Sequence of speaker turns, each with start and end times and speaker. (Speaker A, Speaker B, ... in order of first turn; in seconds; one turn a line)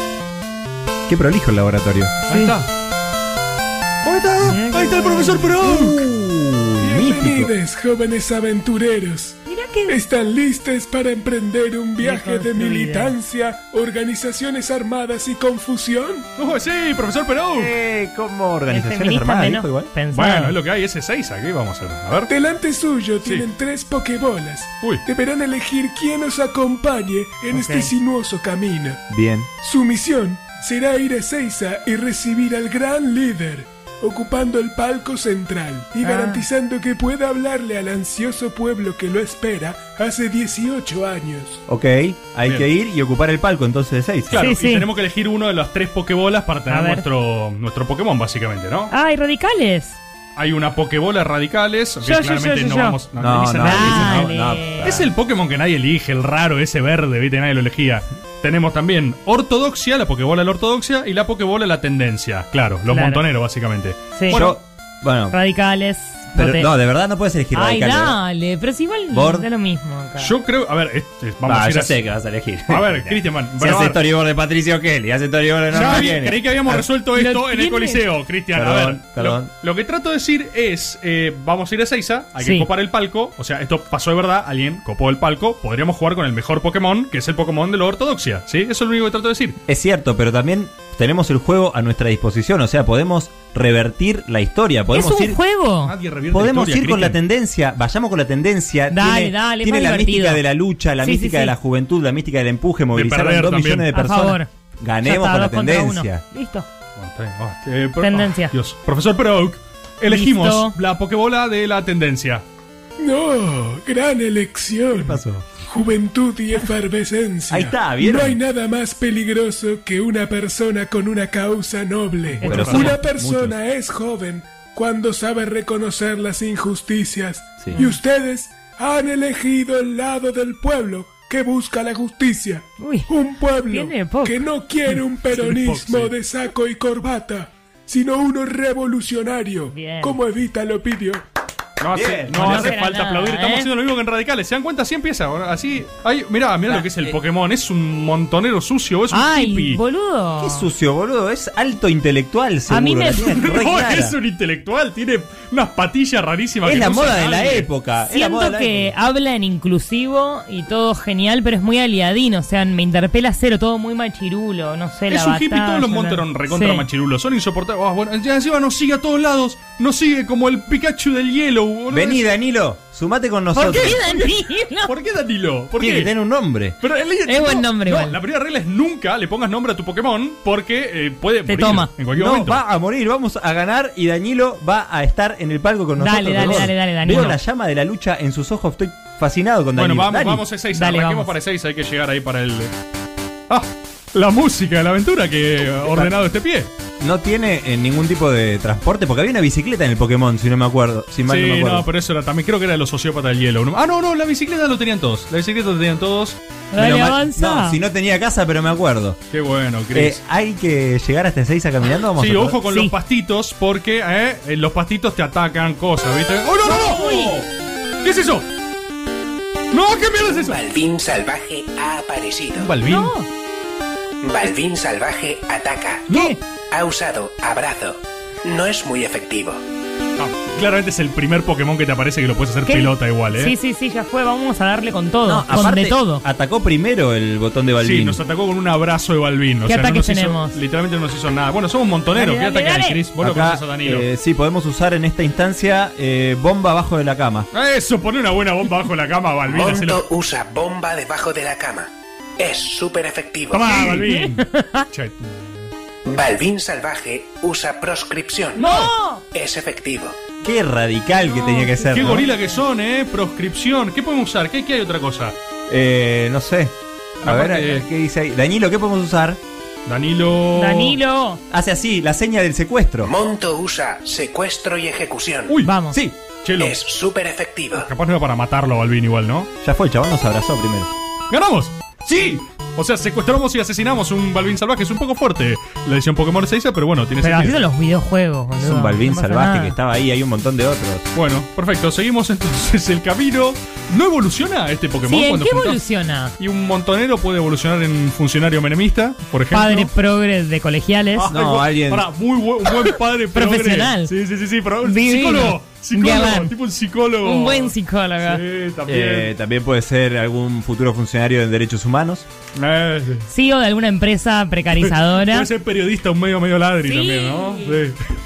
Speaker A: 1.1-2.1
Speaker B: 2.3-2.7
Speaker C: 2.3-2.5
Speaker B: 4.0-6.1
Speaker C: 4.4-5.5
Speaker A: 5.6-7.5
Speaker D: 6.8-16.2
Speaker C: 9.4-10.0
Speaker C: 12.0-13.1
Speaker B: 16.4-17.7
Speaker A: 17.5-19.9
Speaker C: 18.7-20.6
Speaker B: 20.1-22.3
Speaker D: 22.3-29.0
Speaker C: 27.5-27.9
Speaker A: 29.1-29.5
Speaker D: 29.6-41.6
Speaker C: 36.0-36.4
Speaker A: 41.7-44.4
Speaker B: 44.3-48.9
Speaker C: 44.4-44.9
Speaker C: 46.7-47.0
Speaker C: 48.9-50.0
Speaker B: 50.4-54.3
Speaker C: 52.0-53.0
Speaker A: 53.2-55.1
Speaker C: 53.6-55.0
Speaker B: 54.8-64.6
Speaker C: 62.9-63.2
Speaker C: 64.1-64.5
Speaker A: 64.3-65.3
Speaker C: 65.3-66.7
Speaker A: 66.3-68.2
Speaker C: 67.5-70.3
Speaker A: 69.1-69.5
Speaker B: 70.2-72.0
Speaker A: 71.4-76.8
Speaker B: 72.7-74.0
Speaker B: 75.7-89.6
Speaker C: 75.7-76.2
Speaker C: 77.1-78.1
Speaker A: 78.5-79.5
Speaker C: 82.4-82.7
Speaker A: 89.7-95.4
Speaker C: 94.9-95.9
Speaker B: 95.8-97.2
Speaker A: 96.3-106.2
Speaker C: 98.9-100.4
Speaker C: 101.0-101.5
Speaker B: 102.9-103.9
Speaker C: 103.9-104.5
Speaker C: 105.0-106.7
Speaker B: 107.0-112.4
Speaker C: 108.0-108.5
Speaker C: 110.1-110.8
Speaker D: 113.0-141.2
Speaker A: 114.9-115.5
Speaker A: 117.5-118.4
Speaker C: 122.4-123.0
Speaker B: 122.4-123.0
Speaker A: 122.4-123.5
Speaker C: 132.8-133.1
Speaker C: 133.6-134.4
Speaker B: 134.9-136.1
Speaker C: 139.7-140.2
Speaker B: 141.8-149.8
Speaker A: 141.9-142.7
Speaker C: 142.3-143.7
Speaker A: 146.7-147.2
Speaker C: 149.1-150.7
Speaker A: 150.4-154.1
Speaker C: 152.7-153.4
Speaker B: 153.3-157.7
Speaker A: 156.6-158.9
Speaker C: 158.1-166.9
Speaker B: 165.1-172.2
Speaker A: 171.9-174.0
Speaker C: 173.5-174.9
Speaker B: 173.6-176.1
Speaker A: 175.8-176.8
Speaker B: 176.8-182.6
Speaker C: 177.2-178.2
Speaker C: 181.4-181.9
Speaker A: 182.1-190.4
Speaker C: 186.0-187.4
Speaker B: 189.7-192.7
Speaker C: 190.7-191.3
Speaker B: 193.5-196.7
Speaker A: 195.8-196.1
Speaker A: 197.0-201.8
Speaker B: 201.3-206.4
Speaker C: 206.7-207.8
Speaker A: 206.7-209.2
Speaker B: 209.3-210.2
Speaker A: 209.9-212.6
Speaker B: 212.1-217.0
Speaker C: 212.7-212.9
Speaker A: 216.6-217.4
Speaker C: 216.7-217.4
Speaker B: 218.0-218.4
Speaker B: 219.7-220.6
Speaker E: 220.4-222.7
Speaker B: 222.6-223.1
Speaker C: 222.8-223.3
Speaker E: 224.2-226.1
Speaker B: 226.1-226.4
Speaker A: 226.1-226.3
Speaker E: 226.7-229.6
Speaker B: 230.2-233.5
Speaker C: 232.7-236.2
Speaker A: 235.2-238.2
Speaker B: 237.8-244.1
Speaker C: 239.6-240.6
Speaker C: 242.1-243.0
Speaker A: 243.2-247.5
Speaker B: 247.5-250.0
Speaker E: 249.5-254.0
Speaker B: 253.5-255.7
Speaker C: 253.8-254.8
Speaker E: 256.1-258.6
Speaker C: 258.5-259.2
Speaker B: 258.6-258.9
Speaker E: 259.3-260.2
Speaker A: 260.4-262.2
Speaker C: 261.2-262.6
Speaker B: 261.9-265.4
Speaker A: 265.7-269.4
Speaker B: 267.2-267.9
Speaker B: 269.8-271.0
Speaker C: 270.5-271.4
Speaker A: 271.5-273.1
Speaker E: 273.0-275.5
Speaker C: 275.6-276.0
Speaker B: 276.4-276.8
Speaker E: 276.6-277.9
Speaker B: 277.7-279.5
Speaker A: 279.6-280.9
Speaker B: 281.3-287.6
Speaker C: 287.2-289.8
Speaker A: 288.6-291.1
Speaker B: 291.1-295.8
Speaker C: 295.0-296.3
Speaker B: 296.4-299.9
Speaker C: 299.5-301.3
Speaker B: 301.1-309.3
Speaker A: 301.3-302.1
Speaker C: 303.3-304.1
Speaker C: 304.8-306.5
Speaker C: 307.2-308.4
Speaker A: 308.9-312.2
Speaker B: 312.5-313.3
Speaker C: 313.3-315.5
Speaker B: 314.7-318.0
Speaker C: 316.8-317.8